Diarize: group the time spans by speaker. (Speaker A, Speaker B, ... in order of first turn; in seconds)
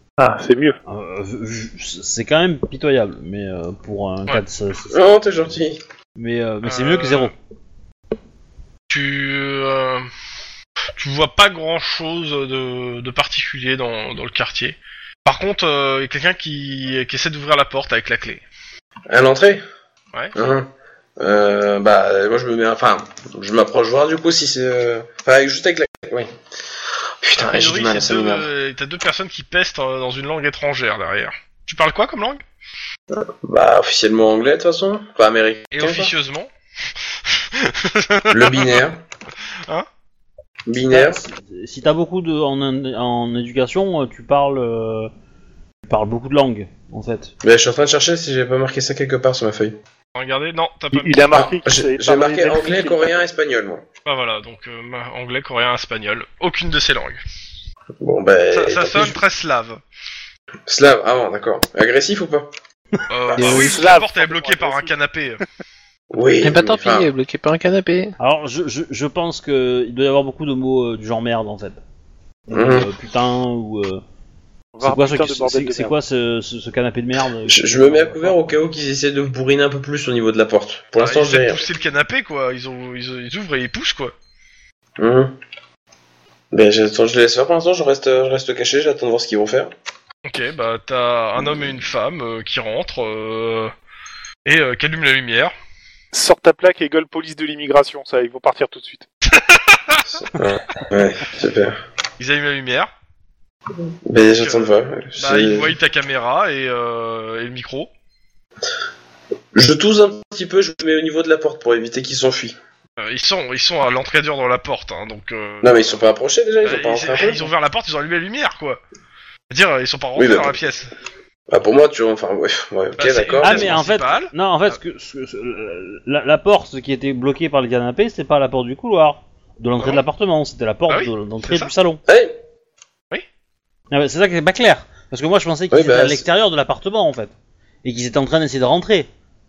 Speaker A: 0.2-0.8, 50.9-53.1, 63.4-64.9, 74.7-76.0, 96.1-99.0
Speaker B: 0.8-5.0, 6.2-7.3, 40.9-45.1, 45.9-47.3, 68.2-71.8, 72.5-74.0, 74.8-78.6, 123.4-132.0, 133.9-137.3, 137.8-139.1
Speaker C: 4.9-5.8, 19.1-19.6, 20.3-26.3, 27.2-28.5, 33.1-36.1, 38.3-39.0, 40.7-41.2, 47.4-49.8, 51.3-53.8, 58.0-59.2, 60.7-62.5, 66.1-67.1, 72.5-72.9, 77.5-81.6, 85.0-85.3, 86.5-89.7, 100.1-101.8, 104.0-105.7, 109.5-112.5, 115.6-117.5, 120.2-120.5, 121.5-123.8, 132.1-132.3, 135.7-136.2
Speaker D: 6.6-7.3, 8.9-10.1, 11.0-18.4, 27.4-32.4, 35.7-36.5, 37.5-38.8, 50.1-51.4, 54.0-57.2, 58.5-59.8, 63.1-65.4, 81.0-84.1, 90.2-93.7, 94.4-95.5, 99.3-100.0, 102.2-102.9, 104.2-107.9, 113.0-116.0, 116.6-118.8, 119.5-120.9, 123.0-124.3, 130.9-131.7
Speaker E: 63.4-63.9, 66.4-68.2